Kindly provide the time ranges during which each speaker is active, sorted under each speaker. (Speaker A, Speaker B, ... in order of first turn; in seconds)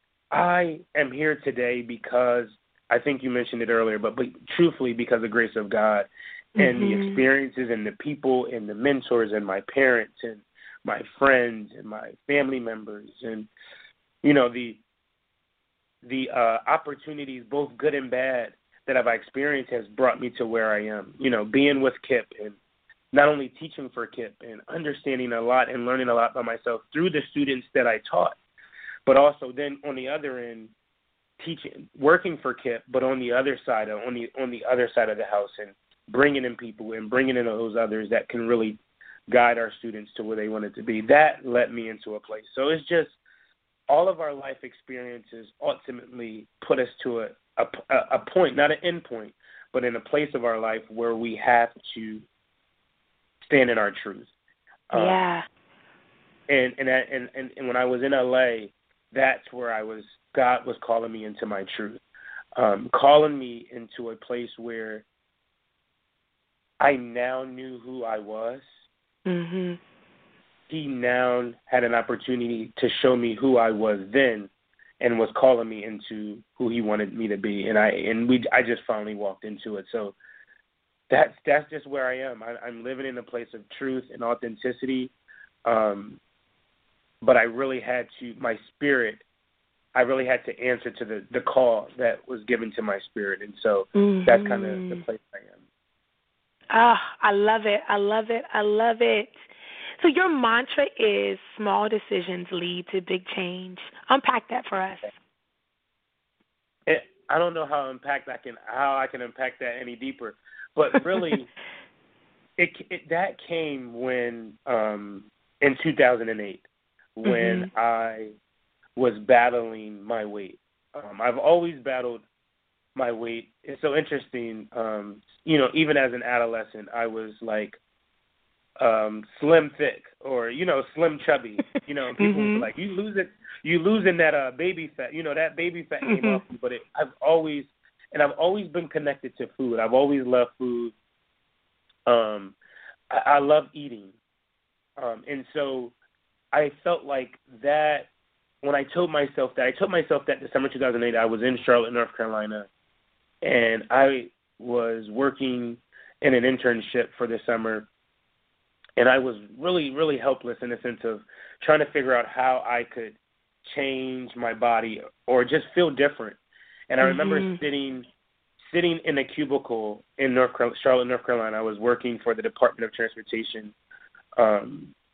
Speaker A: 0.3-13.5, 14.2-14.8, 16.0-22.6, 23.1-28.4, 29.1-30.7, 31.4-43.2, 43.9-52.2, 53.5-54.3, 54.9-55.2, 56.5-62.0, 62.6-65.0, 66.8-68.7, 70.7-80.2, 81.1-85.1, 85.7-86.2, 87.2-89.2, 89.9-95.6, 106.9-111.5, 112.6-116.7, 117.2-118.3, 119.0-122.2, 123.0-127.8, 128.8-140.9, 142.1-142.6, 143.1-144.2, 145.0-145.9, 146.5-148.1, 148.6-152.7, 153.4-157.9, 159.0-166.4, 166.9-168.1, 168.6-173.7, 174.4-174.9
Speaker B: 6.6-7.2, 54.9-55.5, 69.3-69.8, 94.0-95.0, 96.7-99.4, 100.0-105.1, 117.2-117.7, 132.2-132.7, 136.0-136.4, 167.0-167.6